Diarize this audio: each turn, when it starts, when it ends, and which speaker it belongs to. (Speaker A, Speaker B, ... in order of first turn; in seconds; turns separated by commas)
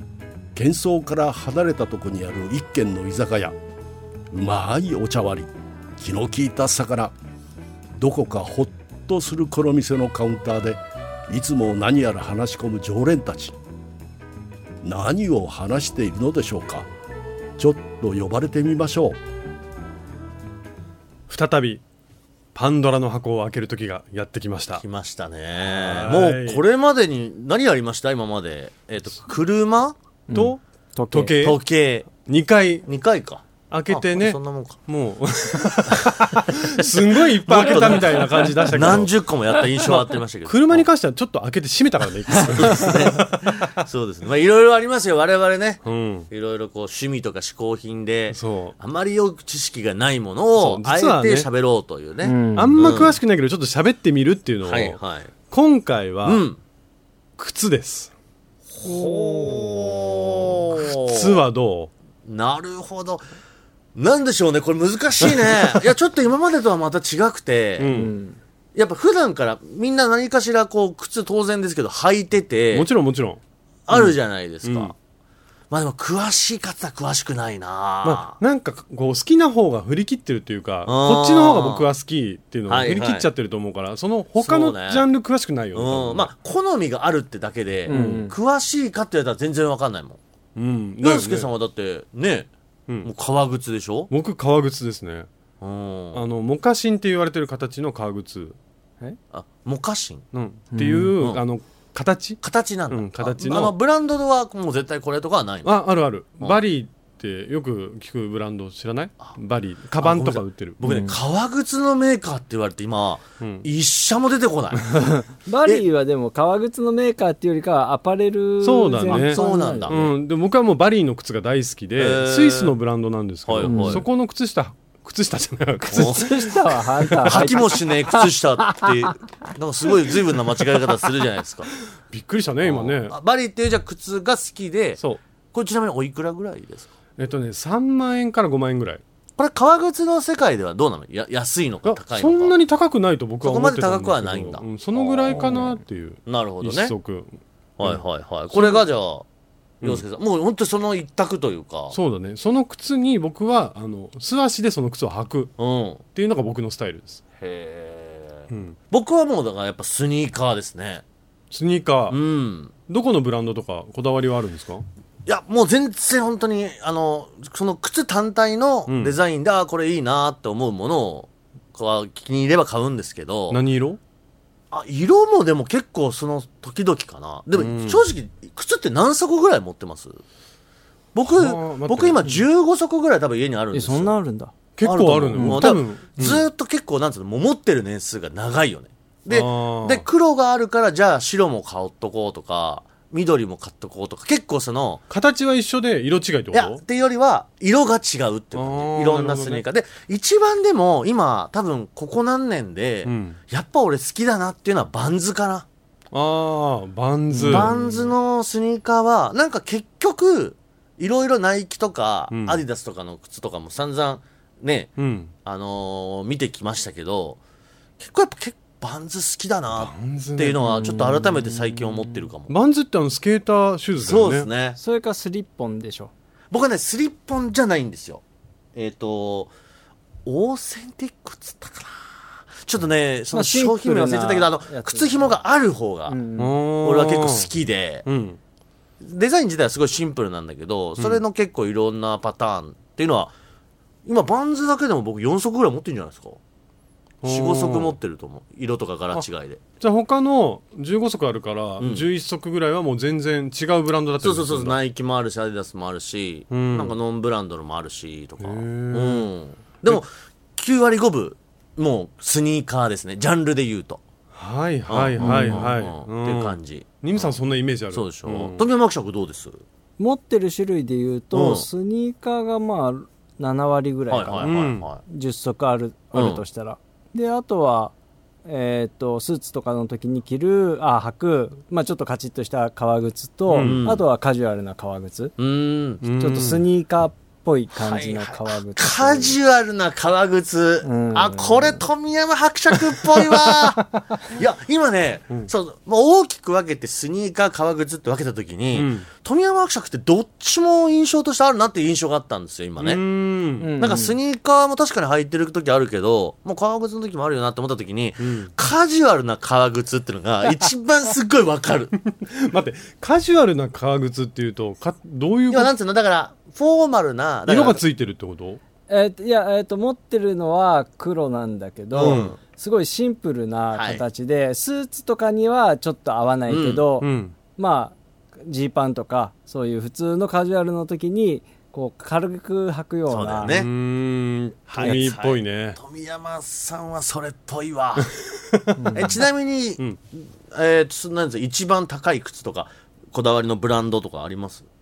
Speaker A: 0.6-3.5, Speaker A: 4.3-7.1, Speaker A: 8.0-13.6, Speaker A: 14.8-16.9, Speaker A: 17.6-19.2, Speaker B: 21.3-21.8, Speaker B: 22.6-24.8, Speaker C: 24.8-30.0, Speaker B: 25.6-26.6, Speaker D: 30.3-31.4, Speaker B: 30.3-30.6, Speaker B: 31.1-32.9, Speaker C: 31.4-32.1, Speaker C: 32.9-34.8, Speaker B: 33.7-39.1, Speaker C: 35.9-40.9, Speaker B: 39.8-43.3, Speaker C: 42.3-53.2, Speaker B: 45.8-46.3, Speaker B: 48.3-48.8, Speaker B: 50.6-51.5, Speaker D: 52.2-53.0, Speaker B: 52.6-56.4, Speaker C: 54.6-55.3, Speaker C: 56.2-56.6, Speaker B: 57.4-58.1, Speaker C: 58.7-61.4, Speaker D: 58.9-59.8, Speaker B: 60.7-61.9, Speaker C: 62.2-63.2, Speaker C: 64.0-67.9, Speaker B: 67.8-68.1, Speaker D: 67.9-68.4, Speaker C: 68.8-72.9, Speaker B: 72.7-73.4, Speaker C: 73.9-74.9, Speaker B: 74.6-74.9, Speaker C: 75.7-78.4, Speaker B: 78.0-86.3, Speaker C: 80.9-81.9, Speaker C: 82.7-83.3, Speaker C: 84.4-85.1, Speaker C: 85.7-90.2, Speaker D: 87.9-88.4, Speaker B: 87.9-88.2, Speaker B: 90.5-91.5, Speaker C: 91.0-92.5, Speaker C: 93.0-94.1, Speaker B: 94.1-95.3, Speaker C: 95.6-96.2, Speaker B: 96.1-98.6, Speaker C: 99.3-100.2, Speaker B: 100.3-103.7, Speaker D: 100.7-101.1, Speaker C: 102.4-105.8, Speaker B: 105.6-110.8, Speaker C: 110.0-114.8, Speaker D: 110.8-111.2, Speaker B: 113.4-113.7, Speaker D: 115.1-120.0, Speaker B: 118.6-126.3, Speaker C: 119.1-120.1, Speaker C: 122.0-122.8, Speaker C: 123.5-124.1, Speaker D: 123.7-124.0, Speaker C: 125.9-126.5, Speaker D: 125.9-129.1, Speaker B: 127.1-127.5, Speaker C: 127.2-131.7, Speaker B: 132.1-133.2, Speaker C: 132.6-135.0, Speaker C: 135.5-136.9, Speaker B: 137.2-139.0, Speaker C: 139.4-142.6, Speaker B: 141.8-147.3, Speaker C: 143.4-146.9, Speaker C: 147.8-149.2, Speaker B: 147.8-148.8, Speaker C: 149.8-152.0, Speaker B: 151.9-155.6, Speaker C: 155.6-156.0, Speaker B: 156.1-157.2, Speaker C: 157.4-161.0, Speaker B: 158.5-158.8, Speaker B: 161.5-162.2, Speaker C: 162.1-162.7, Speaker B: 162.9-164.8, Speaker C: 165.3-173.6, Speaker B: 168.9-169.2, Speaker B: 173.5-174.0, Speaker C: 174.7-180.2, Speaker B: 177.6-178.0, Speaker C: 181.2-184.1, Speaker B: 181.3-182.2, Speaker D: 183.7-184.5, Speaker B: 184.8-186.5, Speaker C: 184.8-195.0, Speaker D: 185.3-185.7, Speaker B: 189.3-190.1, Speaker B: 195.1-196.8, Speaker C: 196.5-205.7, Speaker B: 198.6-199.6, Speaker B: 203.1-203.4, Speaker B: 206.1-208.1, Speaker D: 207.3-207.7, Speaker C: 207.5-214.9, Speaker B: 212.3-212.6, Speaker B: 215.0-215.3, Speaker C: 215.4-217.4, Speaker C: 218.0-222.5, Speaker B: 219.7-221.0, Speaker D: 220.7-221.8, Speaker B: 222.5-224.5, Speaker C: 224.0-224.8, Speaker D: 224.8-226.1, Speaker C: 226.5-228.2, Speaker C: 228.8-229.5, Speaker C: 230.2-236.2, Speaker D: 233.3-235.4, Speaker D: 236.1-236.6, Speaker B: 236.4-237.5, Speaker C: 236.8-238.1, Speaker B: 238.1-238.4, Speaker C: 239.0-243.3, Speaker C: 244.1-246.4, Speaker B: 247.2-247.9, Speaker C: 247.2-249.6, Speaker B: 249.8-254.8, Speaker C: 251.8-252.1, Speaker C: 254.2-264.0, Speaker B: 256.5-257.0, Speaker B: 258.4-259.3, Speaker B: 264.4-268.6, Speaker C: 264.9-267.4, Speaker D: 265.2-265.7, Speaker C: 267.9-269.6, Speaker D: 270.0-274.5, Speaker C: 271.3-271.7, Speaker C: 274.1-275.0, Speaker B: 274.4-274.9, Speaker D: 275.1-277.9, Speaker C: 276.1-276.4, Speaker D: 278.5-285.3, Speaker B: 283.5-283.8, Speaker C: 283.6-284.0, Speaker C: 285.4-286.0, Speaker B: 286.0-286.6, Speaker D: 286.2-289.4, Speaker C: 287.7-303.0, Speaker D: 290.8-291.9, Speaker B: 293.2-294.0, Speaker B: 298.8-299.1, Speaker B: 302.8-303.7, Speaker D: 303.6-304.1, Speaker C: 303.8-311.9, Speaker B: 308.2-308.5, Speaker B: 312.1-315.7, Speaker C: 315.5-317.8, Speaker B: 317.5-318.6, Speaker D: 318.9-333.6, Speaker C: 321.9-322.4, Speaker B: 322.0-322.3, Speaker C: 323.7-324.0, Speaker C: 326.5-326.9, Speaker B: 327.0-327.3, Speaker C: 333.1-333.7, Speaker B: 333.5-335.8, Speaker C: 334.7-338.1, Speaker D: 334.8-335.1, Speaker B: 338.5-339.1, Speaker D: 338.8-339.2, Speaker C: 338.9-344.6